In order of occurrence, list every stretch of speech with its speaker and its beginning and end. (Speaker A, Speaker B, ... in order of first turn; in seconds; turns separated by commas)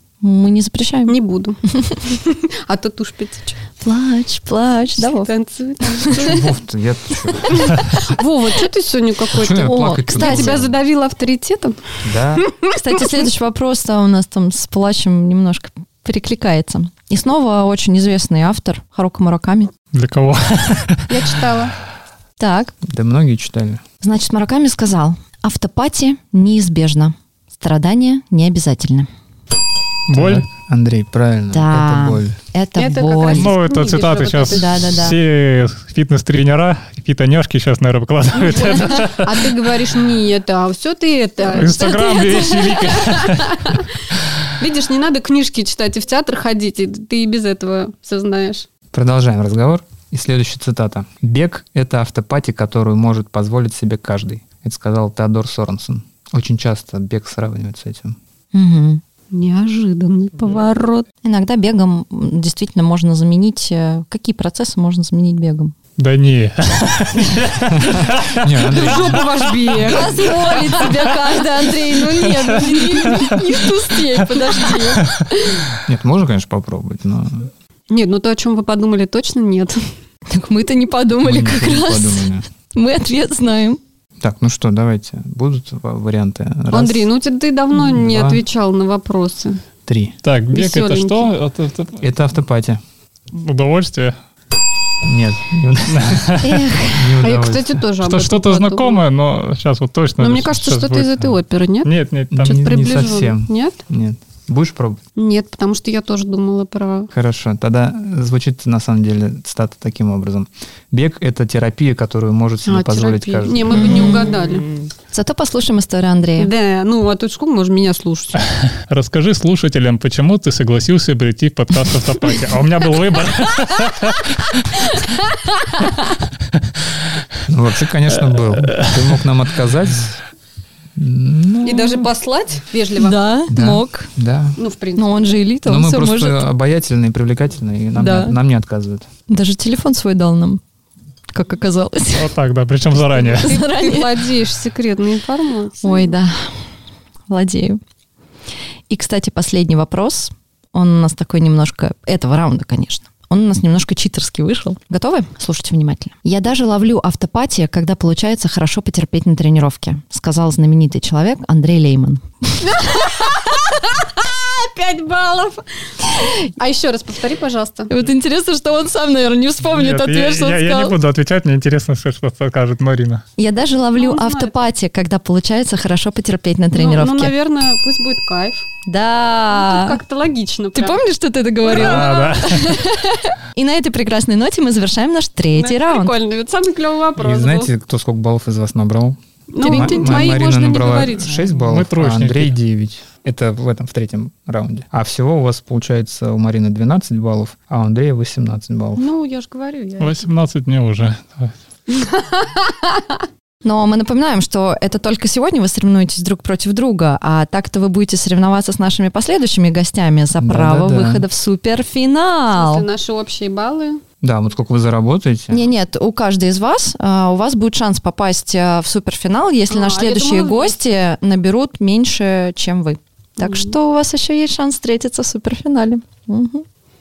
Speaker A: 0.2-1.2, Speaker B: 1.1-3.6, Speaker A: 3.8-5.3, Speaker B: 5.0-6.5, Speaker C: 6.1-7.7, Speaker B: 7.5-11.8, Speaker C: 9.3-10.7, Speaker A: 9.6-10.6, Speaker C: 12.0-12.4, Speaker A: 12.8-19.7, Speaker D: 19.9-21.3, Speaker B: 21.1-21.8, Speaker A: 22.4-22.7, Speaker C: 22.8-23.8, Speaker A: 24.0-29.1, Speaker D: 30.1-30.5, Speaker C: 30.1-32.4, Speaker A: 31.5-33.5, Speaker B: 32.8-34.9, Speaker D: 33.3-39.5, Speaker A: 34.5-35.2, Speaker B: 38.5-43.9, Speaker D: 41.5-43.6, Speaker B: 44.6-48.7, Speaker C: 48.9-58.2, Speaker A: 58.5-59.0, Speaker B: 59.3-61.1, Speaker A: 61.2-65.7, Speaker D: 66.0-68.4, Speaker C: 67.7-69.3, Speaker B: 68.6-71.2, Speaker A: 69.9-73.3, Speaker B: 72.4-75.5, Speaker C: 75.9-77.5, Speaker B: 77.9-79.8, Speaker A: 80.3-83.8, Speaker C: 81.2-82.5, Speaker C: 84.2-87.1, Speaker B: 86.7-89.6, Speaker C: 87.7-88.4, Speaker C: 89.9-90.1, Speaker D: 90.2-92.0, Speaker B: 90.5-91.3, Speaker C: 92.0-92.8, Speaker D: 93.3-94.2, Speaker C: 95.0-97.8, Speaker D: 95.9-96.5, Speaker A: 96.4-97.0, Speaker B: 97.2-99.0, Speaker D: 98.0-102.6, Speaker B: 100.2-101.9, Speaker C: 102.3-105.0, Speaker B: 102.4-103.8, Speaker B: 105.2-107.1, Speaker C: 107.1-113.9, Speaker B: 112.7-114.7, Speaker A: 113.8-114.3, Speaker D: 114.0-114.9, Speaker A: 115.1-116.5, Speaker B: 116.4-118.4, Speaker D: 118.8-124.6, Speaker C: 127.5-130.2, Speaker D: 128.3-129.2, Speaker C: 131.0-132.1, Speaker B: 131.6-133.2, Speaker A: 133.0-134.1, Speaker C: 133.5-134.6, Speaker B: 134.6-135.3, Speaker A: 135.0-136.5, Speaker C: 135.7-139.1, Speaker A: 137.9-138.4, Speaker A: 139.3-140.6, Speaker A: 141.3-142.3, Speaker D: 142.1-143.6, Speaker B: 143.2-146.1, Speaker A: 143.4-144.1, Speaker A: 145.8-146.6, Speaker A: 147.3-147.8, Speaker A: 148.9-162.2, Speaker B: 162.6-165.6, Speaker B: 166.2-167.9, Speaker A: 167.9-170.9, Speaker D: 169.7-173.2, Speaker A: 173.4-177.3, Speaker B: 174.0-174.6, Speaker B: 176.7-178.7, Speaker A: 178.9-180.0, Speaker B: 179.5-181.0, Speaker A: 180.8-186.2, Speaker B: 181.6-182.7, Speaker D: 181.7-182.7, Speaker B: 185.6-187.7, Speaker C: 187.2-199.1, Speaker B: 189.5-191.5, Speaker A: 189.6-190.3, Speaker D: 191.7-192.6, Speaker B: 199.0-200.3, Speaker D: 200.0-201.5, Speaker B: 201.9-203.0, Speaker A: 203.6-212.8, Speaker C: 210.4-211.2, Speaker B: 212.5-214.0, Speaker C: 214.2-215.7, Speaker A: 215.5-226.7, Speaker B: 219.7-220.8, Speaker B: 223.4-223.8